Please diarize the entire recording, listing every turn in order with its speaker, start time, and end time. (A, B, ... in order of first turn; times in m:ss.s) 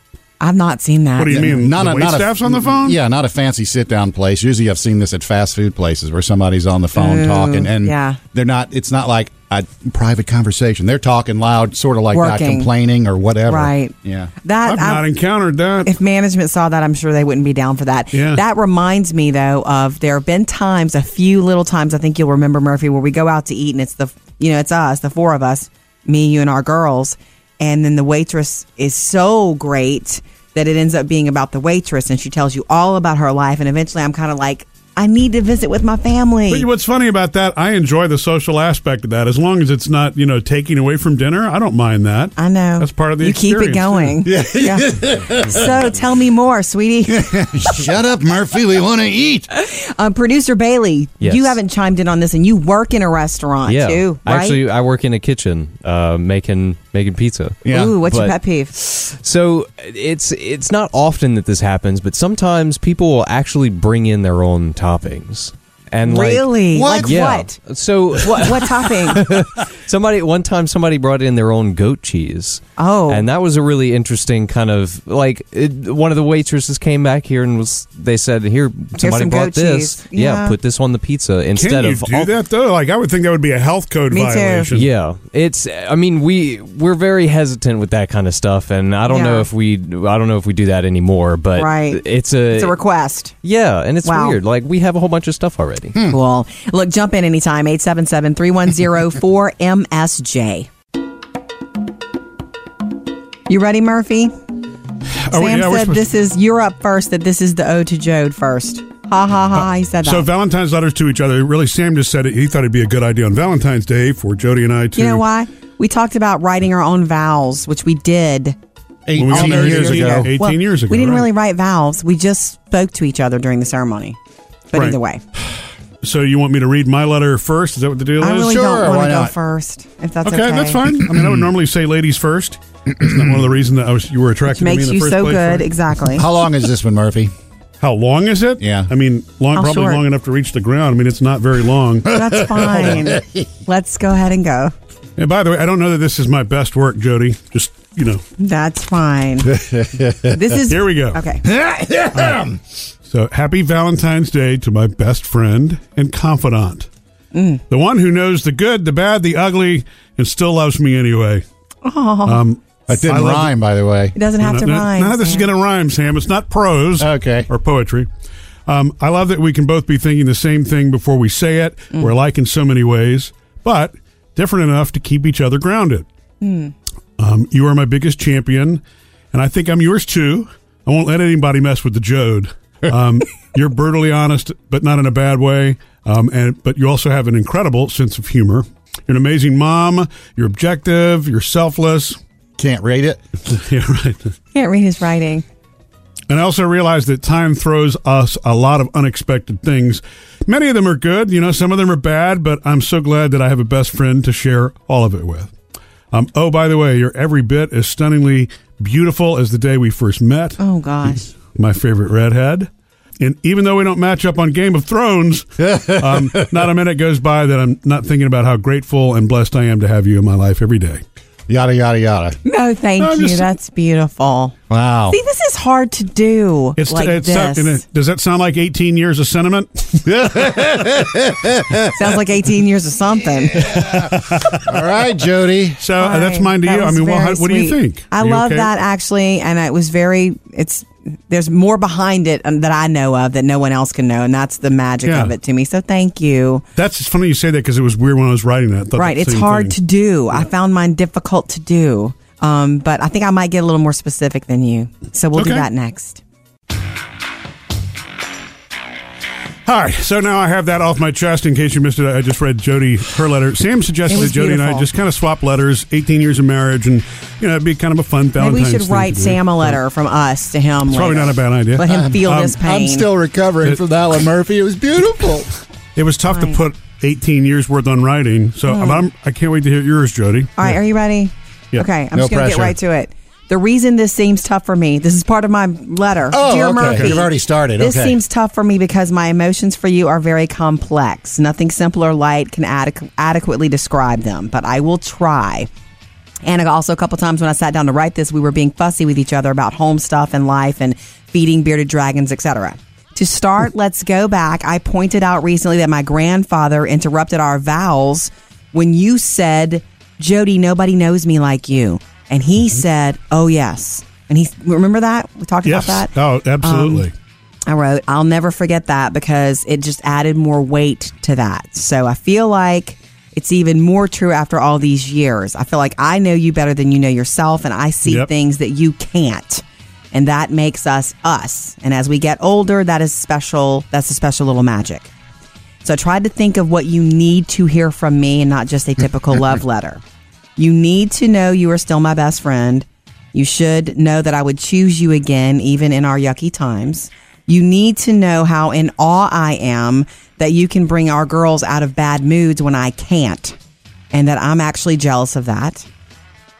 0:00.4-0:01.6 A
0:01.2-0:03.0 B
0:01.3-0:14.3 C
0:07.0-0:08.2 A
0:12.1-0:12.7 A
0:13.5-0:15.1 A
0:14.6-0:15.9 B
0:15.8-0:36.7 A
0:18.1-0:18.4 B
0:36.5-0:44.2 B
0:42.4-0:47.2 A
0:44.2-0:45.8 C
0:47.1-0:49.5 C
0:49.5-0:54.6 A
0:51.2-0:51.6 D
0:53.6-1:22.3 D
0:57.6-0:58.0 C
0:57.7-0:58.8 A
1:06.0-1:07.6 A
1:06.7-1:07.4 C
1:08.2-1:09.3 A
1:12.8-1:13.2 A
1:19.0-1:20.5 A
1:21.5-1:24.9 B
1:24.1-1:24.7 A
1:24.7-1:32.8 D
1:29.1-1:29.5 A
1:31.6-1:33.3 A
1:33.4-1:36.0 D
1:34.0-1:34.4 A
1:36.1-1:40.7 A
1:43.5-1:44.3 A
1:45.2-1:46.1 B
1:45.3-1:50.3 A
1:50.0-1:55.2 B
1:55.0-1:58.6 A
1:59.1-2:00.3 C
1:59.2-2:01.3 B
1:59.2-2:04.2 A
2:04.7-2:05.2 A
2:06.0-2:08.5 B
2:08.2-2:10.8 A
2:08.4-2:09.3 C
2:10.2-2:15.7 B
2:11.0-2:11.5 C
2:13.0-2:13.4 C
2:14.5-2:16.2 A
2:16.1-2:17.3 C
2:17.8-2:22.1 B
2:18.6-2:18.9 C
2:19.5-2:20.0 A
2:22.1-2:24.7 A
2:22.3-2:23.4 C
2:22.7-2:23.0 B
2:25.2-2:28.2 B
2:28.4-2:29.6 A
2:29.4-2:30.4 C
2:30.3-2:31.4 A
2:30.7-2:31.2 B
2:31.4-2:32.6 C
2:32.1-2:32.5 B
2:33.0-2:36.9 B
2:37.3-2:37.6 A
2:37.7-2:41.4 B
2:41.8-2:42.4 A
2:42.2-2:43.5 B
2:42.9-2:44.2 C
2:44.2-2:45.5 A
2:44.3-2:48.1 B
2:47.0-2:47.5 C
2:48.7-2:56.1 B
2:56.4-2:56.7 A
2:57.2-2:58.8 B
2:59.3-3:12.2 B
3:12.6-3:13.2 C
3:13.5-3:14.3 B
3:14.5-3:15.4 A
3:16.3-3:25.5 B
3:26.1-3:30.6 B
3:30.6-3:31.3 A
3:31.3-3:32.7 B
3:33.2-3:41.0 B
3:35.6-3:36.6 C
3:41.5-3:42.4 C
3:42.4-3:44.5 A
3:43.0-3:43.5 B
3:44.7-3:45.2 C
3:45.1-3:47.8 A
3:46.8-3:50.0 B
3:50.0-3:52.0 C
3:51.9-3:53.7 A
3:53.6-3:54.7 B
3:53.7-3:54.1 C
3:54.6-3:55.8 C
3:55.8-3:58.7 B
3:56.0-4:06.6 A
4:05.0-4:05.3 B
4:06.8-4:09.7 B
4:09.0-4:16.2 A
4:15.3-4:15.7 B
4:19.6-4:29.8 B
4:24.1-4:24.9 A
4:28.4-4:33.0 A
4:30.9-4:32.5 B
4:31.9-4:35.5 C
4:36.0-4:40.7 B
4:36.3-4:36.6 A
4:38.7-4:39.0 A
4:40.6-4:55.7 A
4:42.1-4:42.7 C
4:46.3-4:48.2 C
4:56.4-5:17.1 A
5:15.6-5:17.1 B
5:17.7-5:35.1 A
5:35.8-5:40.0 A
5:40.6-5:53.6 A
5:54.1-5:55.8 A